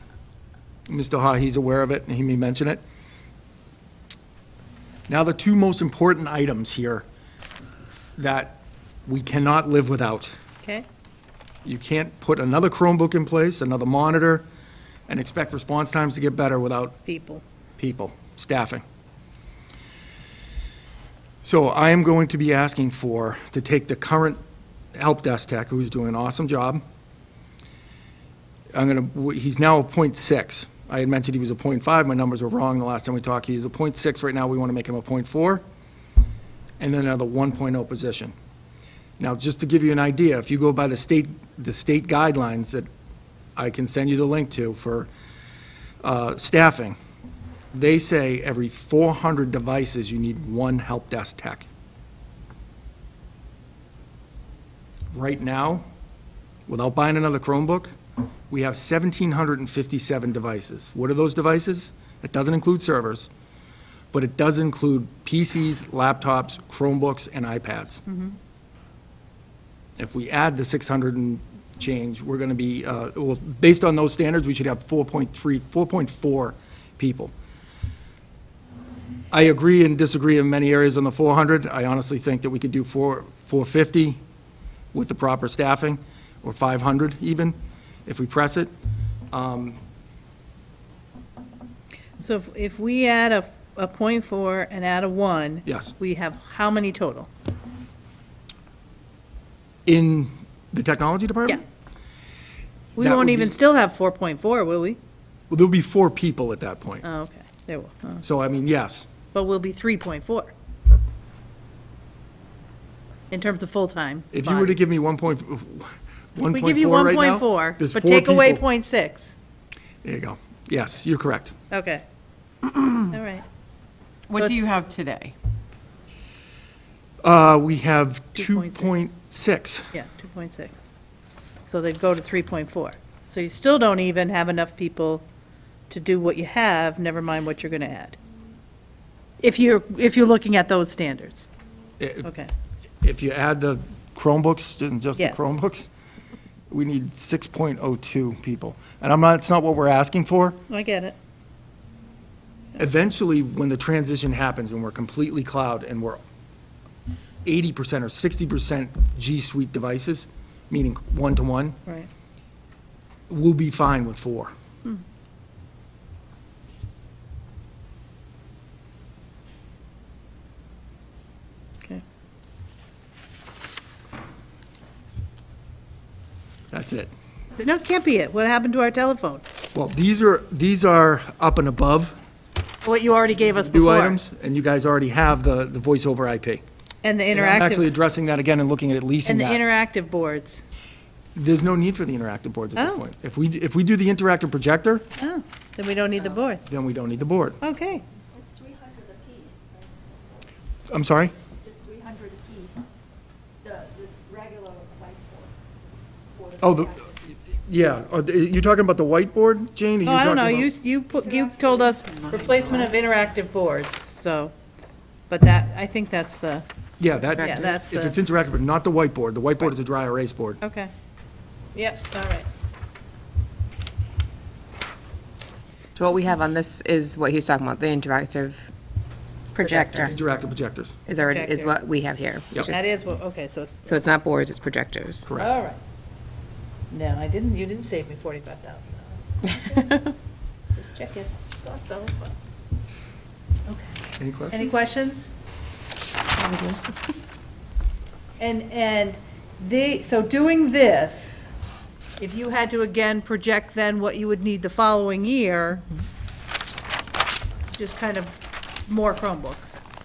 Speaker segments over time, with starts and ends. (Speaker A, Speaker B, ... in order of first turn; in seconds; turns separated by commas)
Speaker A: 0.9-2.8, Speaker A: 5.1-7.0, Speaker A: 8.2-10.3, Speaker A: 11.6-14.4, Speaker A: 15.1-17.0, Speaker B: 17.0-17.4, Speaker A: 17.8-18.8, Speaker A: 21.4-24.4, Speaker A: 24.9-26.8, Speaker A: 28.7-35.6, Speaker A: 36.8-38.3, Speaker A: 39.2-42.9, Speaker A: 43.5-45.1, Speaker A: 46.0-47.0, Speaker A: 47.7-51.7, Speaker A: 55.1-55.8, Speaker A: 56.7-58.0, Speaker A: 58.5-63.3, Speaker A: 64.1-68.0, Speaker B: 68.1-68.3, Speaker A: 70.0-77.3, Speaker A: 79.3-84.2, Speaker A: 84.9-88.7, Speaker A: 89.3-89.8, Speaker B: 92.2-97.3, Speaker A: 95.7-95.9, Speaker A: 99.8-101.6, Speaker B: 103.0-105.0, Speaker A: 103.0-103.6, Speaker A: 105.5-107.0, Speaker B: 107.0-108.2, Speaker A: 108.2-109.1, Speaker B: 109.3-110.5, Speaker B: 113.3-114.8, Speaker A: 114.3-118.6, Speaker B: 116.5-119.3, Speaker A: 120.0-121.5, Speaker B: 121.7-122.0, Speaker B: 123.0-123.4, Speaker C: 124.3-125.3, Speaker B: 124.3-124.7, Speaker A: 127.2-129.9, Speaker B: 128.3-129.0, Speaker B: 129.9-130.8, Speaker B: 131.7-135.2, Speaker B: 135.9-138.2, Speaker B: 139.4-141.5, Speaker A: 142.0-142.3, Speaker B: 142.2-142.5, Speaker A: 143.0-145.9, Speaker B: 145.2-145.5, Speaker A: 146.7-150.6, Speaker B: 150.7-151.1, Speaker A: 152.8-156.2, Speaker A: 157.4-161.8, Speaker A: 163.3-164.5, Speaker A: 176.7-177.1, Speaker B: 177.6-179.4, Speaker A: 179.7-182.1, Speaker B: 182.8-184.2, Speaker A: 183.6-186.6, Speaker B: 187.0-187.9, Speaker A: 187.3-189.6, Speaker B: 189.2-190.6, Speaker A: 191.3-195.1, Speaker B: 192.8-193.0, Speaker B: 195.2-196.6, Speaker A: 196.7-197.6, Speaker B: 197.6-198.0, Speaker D: 198.4-199.7, Speaker A: 200.9-201.3, Speaker D: 201.6-202.8, Speaker D: 203.6-205.5, Speaker D: 206.4-207.1, Speaker A: 206.6-210.7, Speaker B: 210.0-214.5, Speaker B: 215.3-216.7, Speaker A: 217.0-220.6, Speaker B: 217.4-218.2, Speaker B: 220.6-220.9, Speaker B: 221.7-222.4, Speaker C: 225.9-228.7, Speaker C: 229.5-230.3, Speaker A: 229.6-231.0, Speaker C: 231.1-232.8, Speaker B: 231.2-231.7, Speaker B: 232.6-233.9, Speaker C: 233.8-235.3, Speaker A: 235.3-235.5, Speaker B: 235.4-235.8, Speaker B: 236.9-240.1, Speaker B: 240.7-242.3, Speaker B: 243.7-245.3, Speaker A: 244.2-244.8, Speaker C: 246.4-246.8, Speaker B: 248.4-251.3, Speaker B: 252.2-255.8, Speaker B: 257.7-259.8